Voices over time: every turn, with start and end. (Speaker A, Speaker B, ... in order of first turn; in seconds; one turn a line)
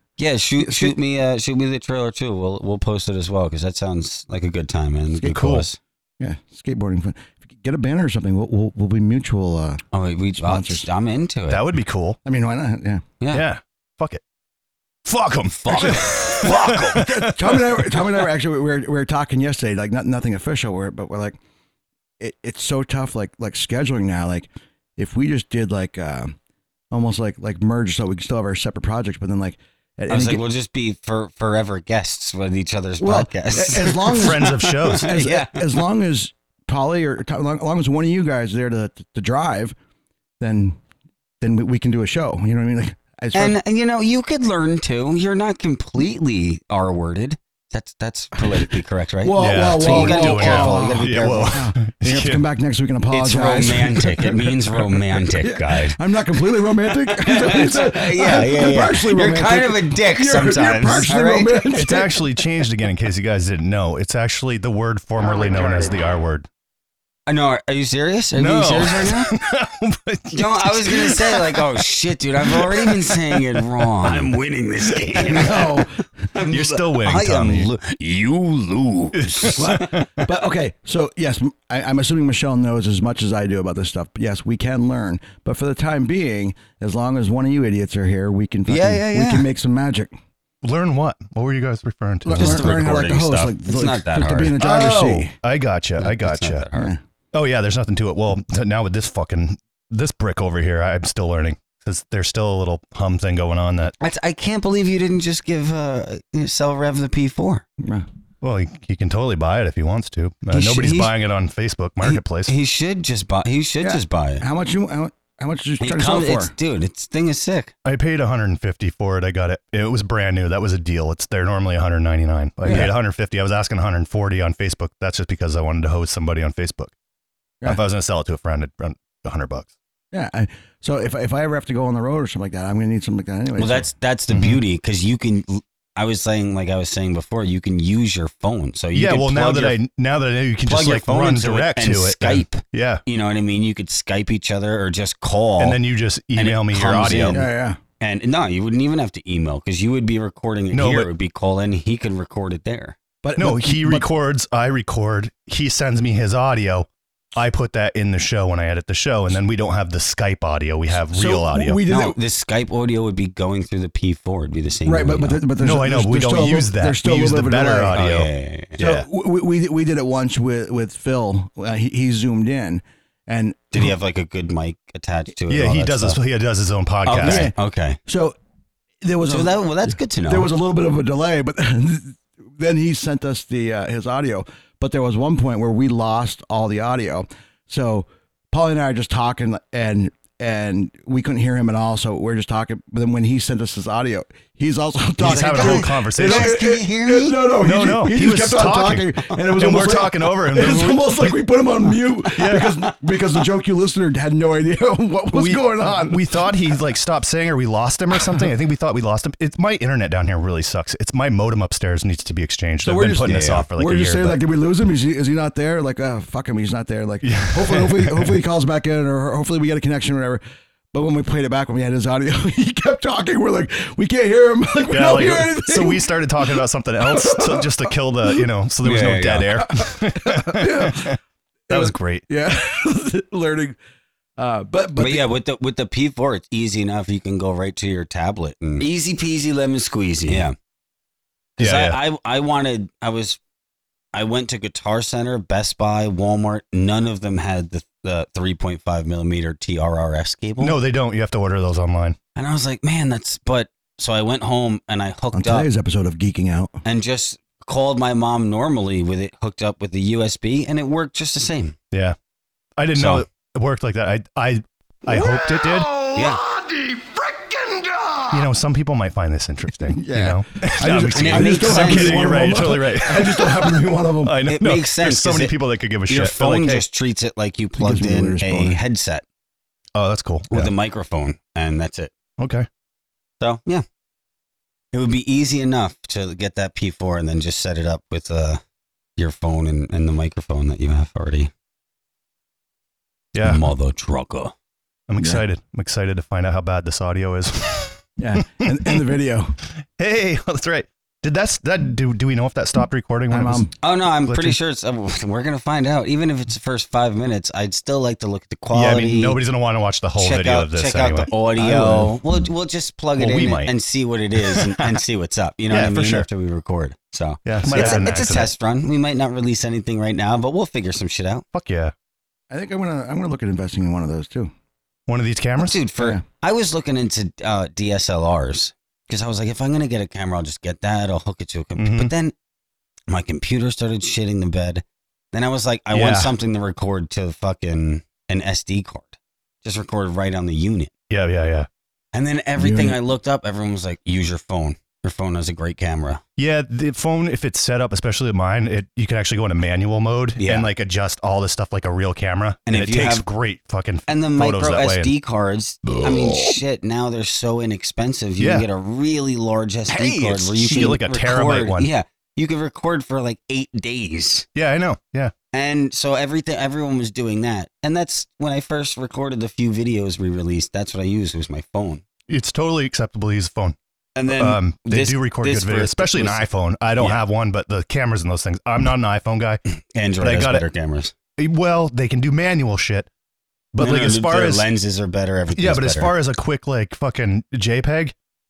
Speaker A: 0.2-5.8
Speaker B: 0.6-1.0
Speaker B: 5.2-5.4
Speaker C: 5.3-5.7
Speaker B: 6.2-9.8
Speaker A: 9.9-11.6
Speaker B: 10.4-10.9
Speaker C: 11.5-12.2
Speaker B: 12.2-13.1
Speaker A: 13.2-13.4
Speaker C: 13.3-14.2
Speaker C: 15.1-18.0
Speaker A: 15.5-17.1
Speaker B: 15.7-21.4
Speaker B: 22.2-26.4
Speaker B: 26.9-30.4
Speaker A: 30.1-35.6
Speaker B: 33.0-39.8
Speaker C: 33.9-35.1
Speaker B: 40.4-40.8
Speaker B: 41.4-43.6
Speaker A: 43.3-51.6
Speaker B: 49.2-54.5
Speaker C: 49.4-52.5
Speaker A: 53.1-56.0
Speaker B: 55.4-62.2
Speaker A: 57.0-61.6
Speaker C: 61.7-66.5
Speaker A: 67.3-69.4
Speaker C: 68.4-71.7
Speaker A: 70.3-75.7
Speaker C: 72.5-73.5
Speaker B: 75.3-76.0
Speaker A: 76.3-79.9
Speaker C: 76.5-77.7
Speaker C: 79.2-80.1
Speaker B: 79.5-90.2
Speaker A: 88.7-89.5
Speaker C: 90.6-92.8
Speaker B: 92.2-95.3
Speaker A: 92.4-94.6
Speaker C: 94.6-96.6
Speaker A: 96.0-96.9
Speaker B: 96.7-97.0
Speaker C: 97.3-104.0
Speaker A: 104.0-107.7
Speaker B: 107.8-108.1
Speaker C: 108.4-112.5
Speaker A: 110.5-111.2
Speaker A: 112.0-114.5
Speaker B: 113.8-116.5
Speaker A: 115.8-117.7
Speaker C: 117.8-126.9
Speaker C: 127.6-129.7
Speaker B: 130.1-133.9
Speaker A: 133.6-139.8
Speaker C: 134.3-134.6
Speaker C: 138.9-143.0
Speaker A: 140.7-145.8
Speaker C: 145.6-147.4
Speaker A: 146.3-147.4
Speaker B: 147.3-147.8
Speaker A: 148.0-153.0
Speaker C: 150.7-151.1
Speaker B: 153.2-154.1
Speaker C: 153.4-161.8
Speaker B: 161.1-162.2
Speaker A: 161.9-165.4
Speaker B: 164.9-168.0
Speaker C: 165.6-169.1
Speaker A: 167.9-168.8
Speaker B: 168.8-173.9
Speaker A: 173.7-176.2
Speaker C: 175.5-177.5
Speaker A: 177.1-178.0
Speaker B: 177.2-178.4
Speaker B: 179.0-206.4
Speaker A: 179.3-180.5
Speaker C: 195.2-196.6
Speaker A: 195.2-197.6
Speaker C: 197.6-201.4
Speaker C: 202.2-202.8
Speaker C: 205.3-214.4
Speaker B: 212.8-220.4
Speaker A: 213.2-213.7
Speaker C: 217.2-218.3
Speaker B: 220.9-228.5
Speaker C: 224.9-231.2
Speaker A: 228.8-229.4
Speaker B: 229.5-231.2
Speaker B: 231.7-233.8
Speaker C: 231.7-232.3
Speaker B: 234.4-235.3
Speaker A: 235.0-240.6
Speaker A: 241.6-243.4
Speaker C: 241.6-242.0
Speaker A: 244.1-250.8
Speaker C: 250.6-252.2
Speaker A: 252.4-255.7
Speaker B: 255.3-256.8
Speaker A: 256.8-261.8
Speaker C: 262.8-266.0
Speaker A: 262.9-263.2
Speaker B: 265.1-268.4
Speaker A: 266.1-266.4
Speaker C: 268.3-276.9
Speaker B: 269.9-274.4
Speaker A: 271.1-272.4
Speaker A: 274.5-279.2
Speaker B: 277.8-278.8
Speaker C: 279.9-280.7
Speaker A: 280.5-282.1
Speaker C: 282.4-282.7
Speaker A: 283.4-283.8
Speaker A: 284.9-288.6
Speaker A: 289.2-291.5
Speaker C: 293.3-293.7
Speaker A: 293.4-294.5
Speaker C: 295.1-298.0
Speaker B: 298.2-299.6
Speaker C: 298.6-299.0
Speaker C: 300.0-303.7
Speaker B: 303.3-303.7
Speaker A: 303.8-309.4
Speaker C: 304.2-304.6
Speaker C: 308.7-312.1
Speaker A: 310.2-321.4
Speaker C: 313.2-313.7
Speaker C: 314.4-315.0
Speaker C: 315.7-316.3
Speaker C: 317.5-318.5
Speaker B: 317.6-318.3
Speaker C: 321.5-321.9
Speaker B: 322.5-324.5
Speaker C: 325.1-325.8
Speaker A: 325.6-332.4
Speaker B: 326.0-326.2
Speaker C: 331.8-332.1
Speaker A: 333.1-340.9
Speaker C: 335.9-336.3
Speaker C: 341.1-341.7
Speaker A: 342.1-346.2
Speaker B: 342.6-343.0
Speaker C: 346.4-355.1
Speaker A: 350.4-350.7
Speaker A: 352.7-353.2
Speaker A: 354.1-364.5
Speaker C: 358.4-358.7
Speaker C: 359.9-361.9
Speaker C: 364.6-365.3
Speaker A: 365.5-372.0
Speaker C: 372.3-373.8
Speaker A: 374.1-377.2
Speaker C: 374.3-379.6
Speaker A: 379.9-381.1
Speaker C: 380.2-380.7
Speaker C: 381.4-383.1
Speaker C: 383.7-384.7
Speaker A: 383.8-386.1
Speaker C: 385.6-388.1